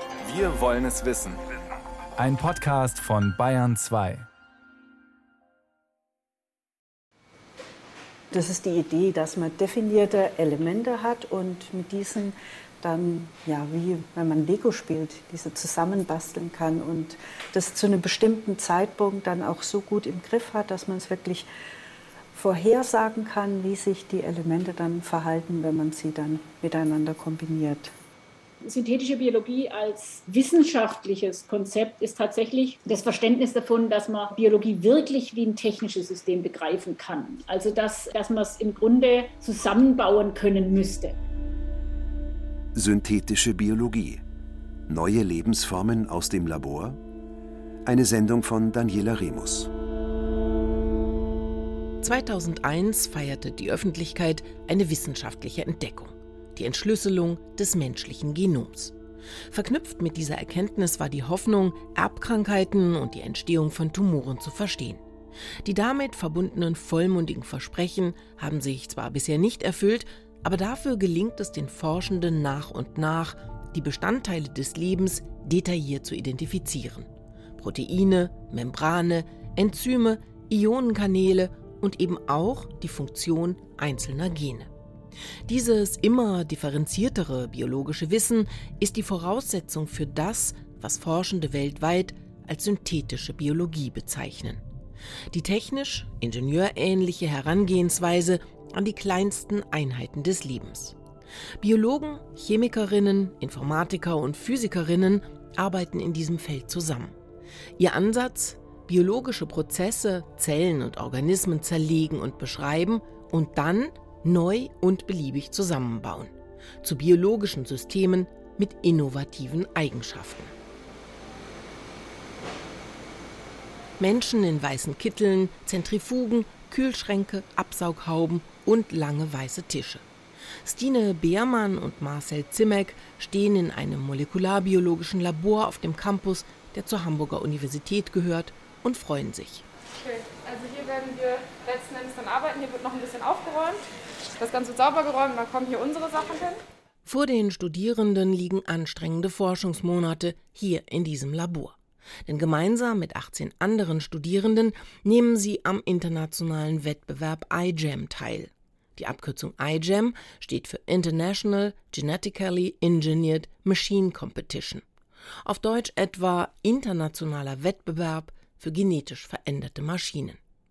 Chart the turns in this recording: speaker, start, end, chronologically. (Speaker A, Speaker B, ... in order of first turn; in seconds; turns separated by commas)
Speaker A: 0.2-1.4, Speaker A: 2.2-4.3, Speaker B: 8.3-21.5, Speaker B: 22.3-27.9, Speaker C: 28.6-41.2, Speaker D: 42.8-44.2, Speaker D: 44.9-47.0, Speaker D: 47.9-49.7, Speaker E: 52.0-59.0, Speaker E: 59.5-65.0, Speaker E: 65.6-84.7, Speaker E: 85.5-94.6, Speaker E: 95.3-101.0, Speaker E: 101.6-107.2, Speaker E: 107.8-120.5, Speaker E: 124.0-130.0, Speaker E: 130.6-139.7, Speaker F: 140.0-143.8, Speaker F: 144.4-146.6, Speaker E: 147.1-164.8, Speaker E: 165.4-170.4